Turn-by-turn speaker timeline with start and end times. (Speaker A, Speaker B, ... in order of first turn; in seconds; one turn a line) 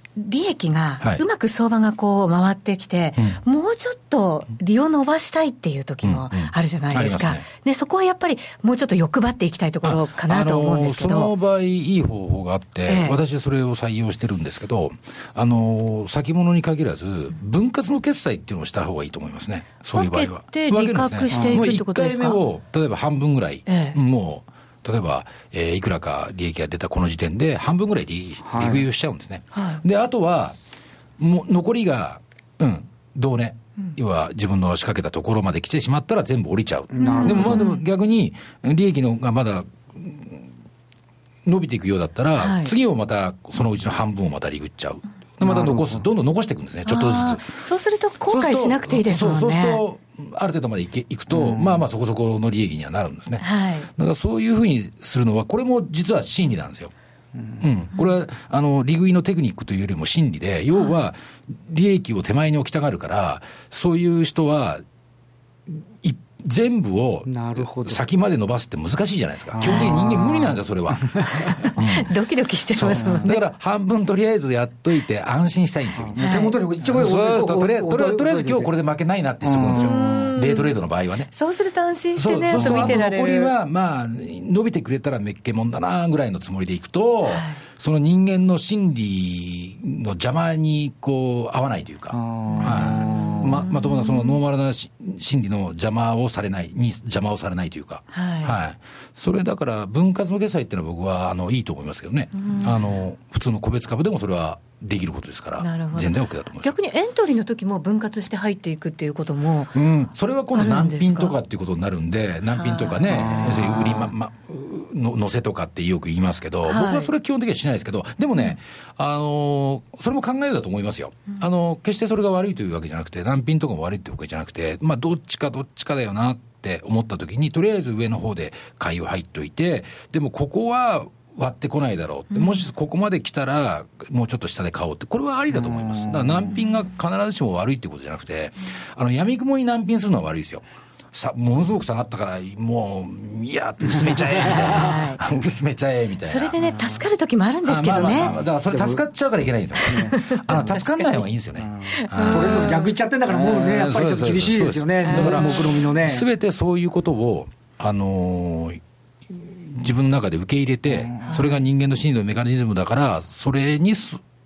Speaker A: 0.1-11.3
Speaker B: 6.0-7.4
Speaker B: 9.8-30.6
Speaker A: 12.9-13.2
Speaker A: 19.9-22.4
Speaker C: 21.3-21.6
Speaker A: 23.7-24.0
Speaker C: 28.4-28.9
Speaker A: 29.5-29.8
Speaker B: 31.2-40.5
Speaker C: 36.9-37.7
Speaker A: 37.0-37.8
Speaker B: 41.4-47.5
Speaker A: 42.4-42.7
Speaker C: 45.4-46.0
Speaker A: 46.9-49.8
Speaker B: 48.3-56.9
Speaker C: 51.4-51.8
Speaker A: 53.4-53.9
Speaker C: 57.3-57.6
Speaker B: 57.6-64.8
Speaker B: 65.7-72.1
Speaker C: 67.3-68.0
Speaker C: 69.5-71.4
Speaker A: 69.6-70.0
Speaker A: 71.3-73.4
Speaker B: 72.7-81.3
Speaker C: 73.0-73.3
Speaker C: 76.0-78.7
Speaker A: 76.2-76.6
Speaker C: 79.4-80.2
Speaker A: 79.7-80.7
Speaker A: 81.3-83.5
Speaker B: 82.1-106.7
Speaker C: 82.5-83.0
Speaker A: 87.3-87.6
Speaker C: 92.1-93.6
Speaker A: 92.5-94.4
Speaker A: 98.1-98.5
Speaker A: 102.3-102.8
Speaker A: 105.6-109.8
Speaker B: 109.7-146.5
Speaker A: 110.5-111.3
Speaker A: 112.5-113.8
Speaker C: 113.1-114.1
Speaker A: 116.7-117.1
Speaker C: 135.6-136.5
Speaker A: 144.7-145.2
Speaker A: 146.2-148.3
Speaker B: 147.6-152.8
Speaker C: 148.1-149.0
Speaker A: 149.7-151.3
Speaker C: 151.6-156.2
Speaker A: 151.9-152.9
Speaker B: 153.3-164.2
Speaker A: 155.0-155.8
Speaker C: 160.9-161.5
Speaker A: 161.2-161.5